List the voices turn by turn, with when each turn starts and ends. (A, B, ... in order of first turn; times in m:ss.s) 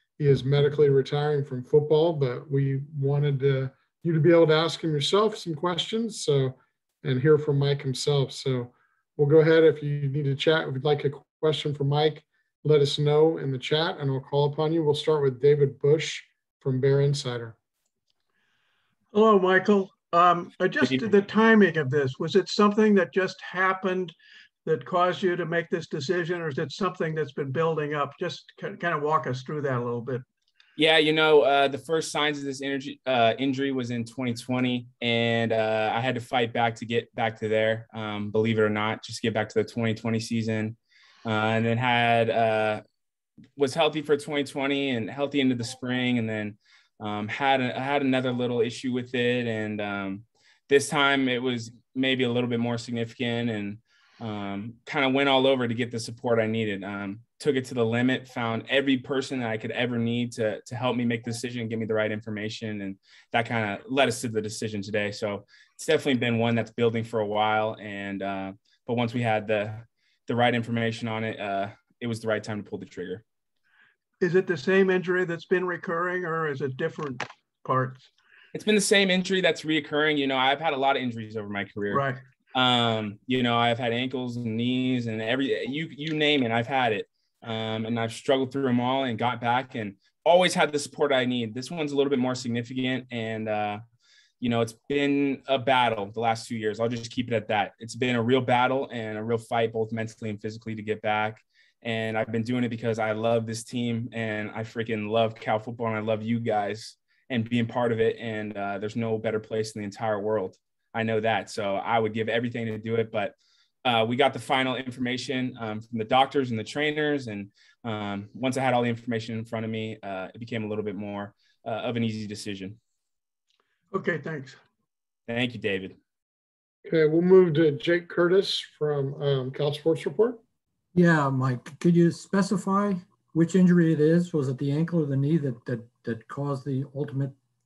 0:00.2-0:17.6 A
0:19.1-0:30.2 B
0:30.8-0:42.8 C
0:43.6-1:13.2 C
1:14.2-1:18.1 B
1:18.5-1:33.8 C
1:21.9-1:22.2 B
1:34.4-2:02.8 C
2:03.9-2:04.6 B
2:05.3-2:05.9 C
2:06.8-2:10.4 A
2:10.9-2:17.3 D